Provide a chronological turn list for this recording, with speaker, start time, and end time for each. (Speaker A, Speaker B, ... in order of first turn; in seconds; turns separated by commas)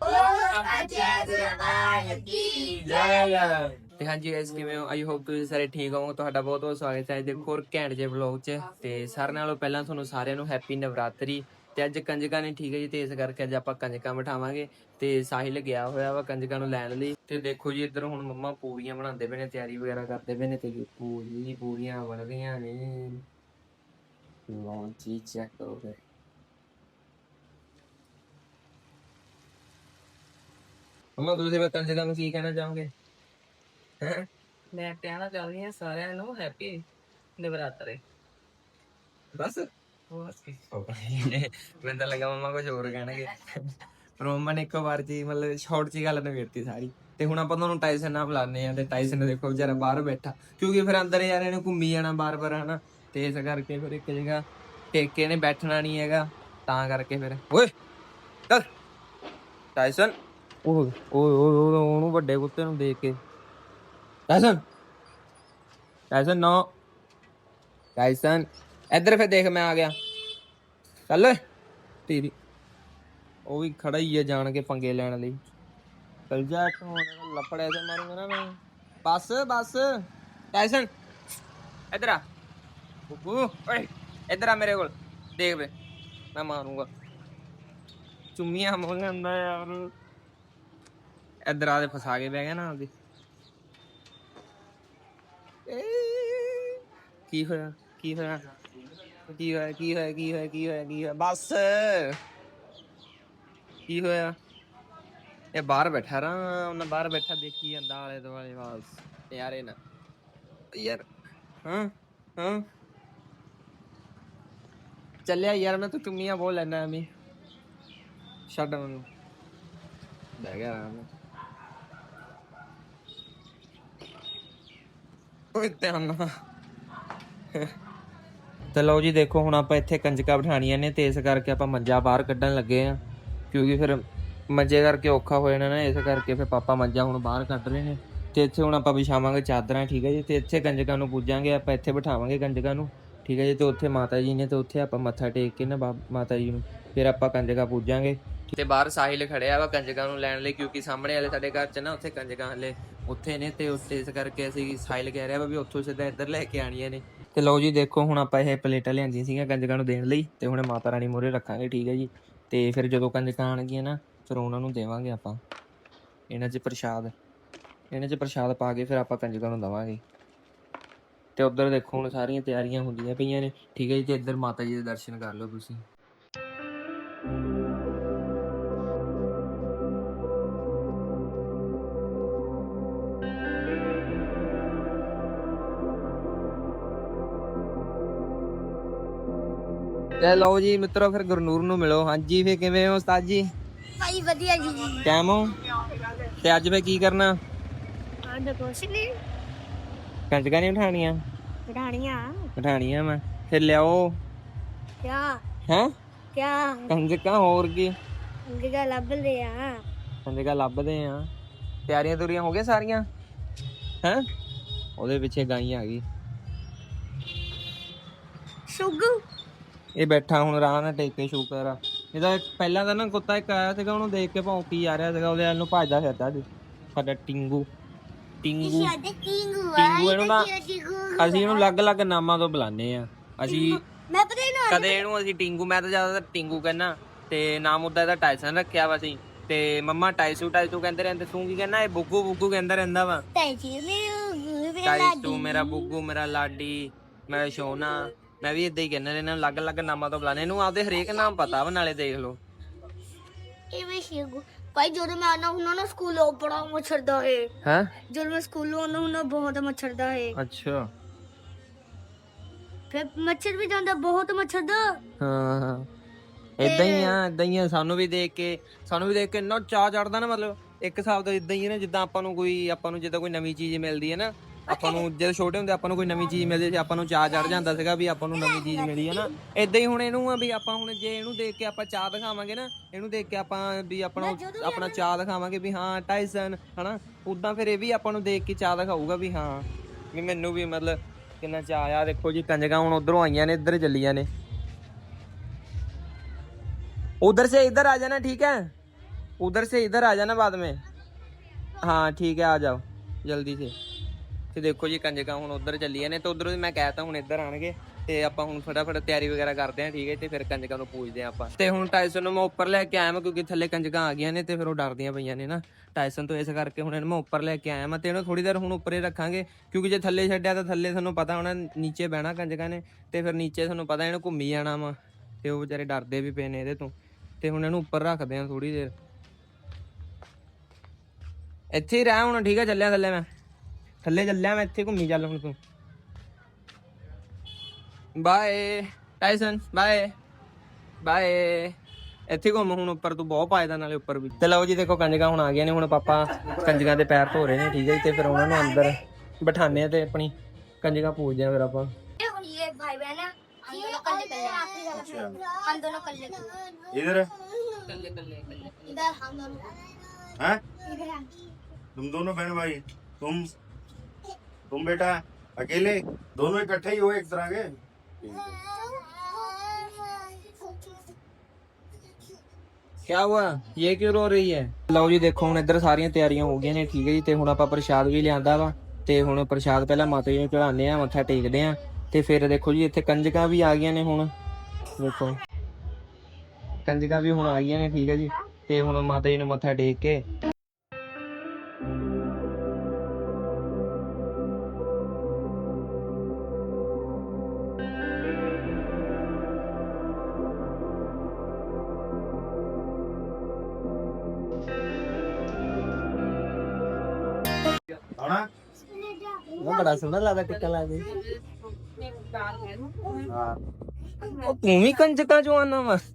Speaker A: 0.3-23.2, Speaker A: 24.5-25.9, Speaker A: 31.2-32.9, Speaker A: 34.0-34.3, Speaker B: 34.7-36.8, Speaker B: 37.4-38.0, Speaker A: 39.3-57.7, Speaker A: 59.8-63.2, Speaker A: 64.3-64.6, Speaker A: 66.1-66.7, Speaker A: 68.0-69.9, Speaker A: 71.1-71.4, Speaker A: 72.1-72.3, Speaker A: 73.5-75.4, Speaker A: 76.3-80.9, Speaker A: 81.9-82.2, Speaker A: 83.1-85.7, Speaker A: 86.3-86.9, Speaker A: 88.3-89.9, Speaker A: 91.5-92.9, Speaker A: 95.7-98.4, Speaker A: 99.3-102.2, Speaker A: 103.9-104.3, Speaker A: 105.5-109.8, Speaker A: 110.7-111.1, Speaker A: 111.6-112.7, Speaker A: 115.2-117.1, Speaker A: 118.5-119.0, Speaker A: 120.4-121.1, Speaker A: 125.5-126.3, Speaker A: 128.7-133.0, Speaker A: 133.5-165.4, Speaker A: 166.3-167.1, Speaker A: 167.9-170.0, Speaker A: 171.3-175.8, Speaker A: 190.2-193.5, Speaker C: 194.0-195.1, Speaker A: 195.0-195.6, Speaker A: 196.2-197.3, Speaker C: 198.2-199.1, Speaker A: 200.3-201.2, Speaker C: 201.7-202.5, Speaker A: 202.6-204.2, Speaker C: 205.0-205.4, Speaker C: 206.3-206.9, Speaker A: 206.9-207.9, Speaker C: 208.5-209.8, Speaker A: 210.2-211.3, Speaker A: 211.9-213.0, Speaker A: 215.0-216.0, Speaker C: 218.7-219.2, Speaker A: 219.9-227.7, Speaker A: 228.4-228.9, Speaker C: 228.6-231.7, Speaker A: 229.7-230.5, Speaker A: 231.2-233.8, Speaker C: 233.5-235.0, Speaker A: 234.7-243.2, Speaker C: 243.3-245.9, Speaker A: 244.8-252.4, Speaker C: 253.7-257.5, Speaker A: 257.6-257.9, Speaker C: 258.1-260.4, Speaker A: 260.3-260.9, Speaker C: 262.9-265.0, Speaker A: 265.2-265.9, Speaker A: 266.6-294.3, Speaker C: 266.6-267.2, Speaker C: 274.7-275.0, Speaker C: 277.3-277.7, Speaker C: 278.3-279.4, Speaker C: 284.1-285.0, Speaker A: 297.2-298.7, Speaker A: 299.4-300.8, Speaker A: 301.8-303.7, Speaker A: 304.5-328.9, Speaker A: 331.7-333.2, Speaker A: 334.0-335.6, Speaker A: 338.1-340.1, Speaker A: 341.0-341.8, Speaker A: 342.3-351.9, Speaker C: 352.2-358.1, Speaker D: 354.9-355.3, Speaker D: 356.9-357.3, Speaker B: 357.9-359.0, Speaker C: 358.8-361.5, Speaker D: 361.9-363.5, Speaker D: 364.7-368.5, Speaker C: 368.4-371.1, Speaker A: 373.1-384.3, Speaker A: 385.0-385.4, Speaker A: 386.8-390.2, Speaker D: 408.1-408.5, Speaker C: 408.9-409.6, Speaker A: 409.6-411.2, Speaker B: 411.2-413.2, Speaker D: 413.2-413.6, Speaker A: 414.2-416.0